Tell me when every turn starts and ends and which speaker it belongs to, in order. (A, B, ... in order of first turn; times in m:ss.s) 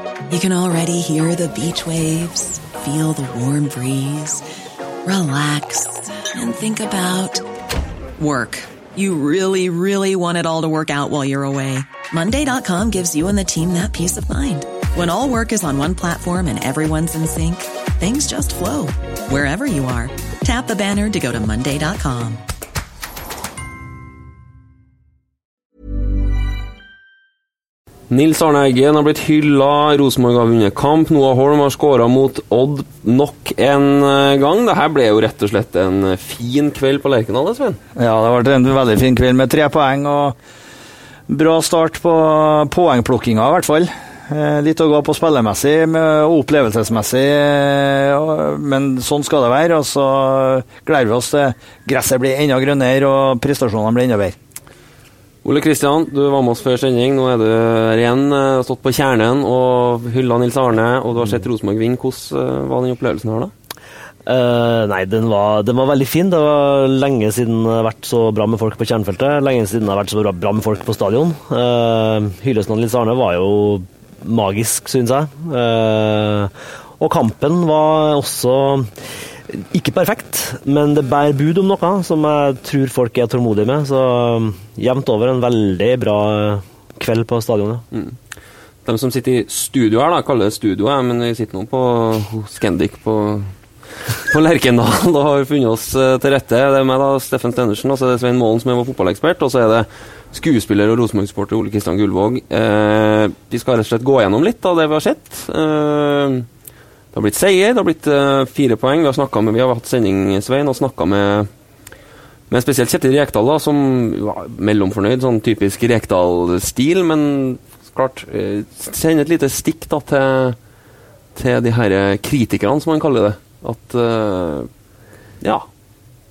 0:00.3-0:04.4 A
0:05.0-0:07.4 A
0:08.2-0:22.4 A
0:28.1-0:37.8 B
0:38.0-0:40.4 C
0:41.3-0:54.4 C
0:55.4-1:03.5 B
1:04.2-1:18.9 D
1:19.5-1:27.8 D
1:28.8-1:46.5 B
1:47.1-1:51.5 B
1:52.5-2:00.6 B
2:01.3-2:04.7 B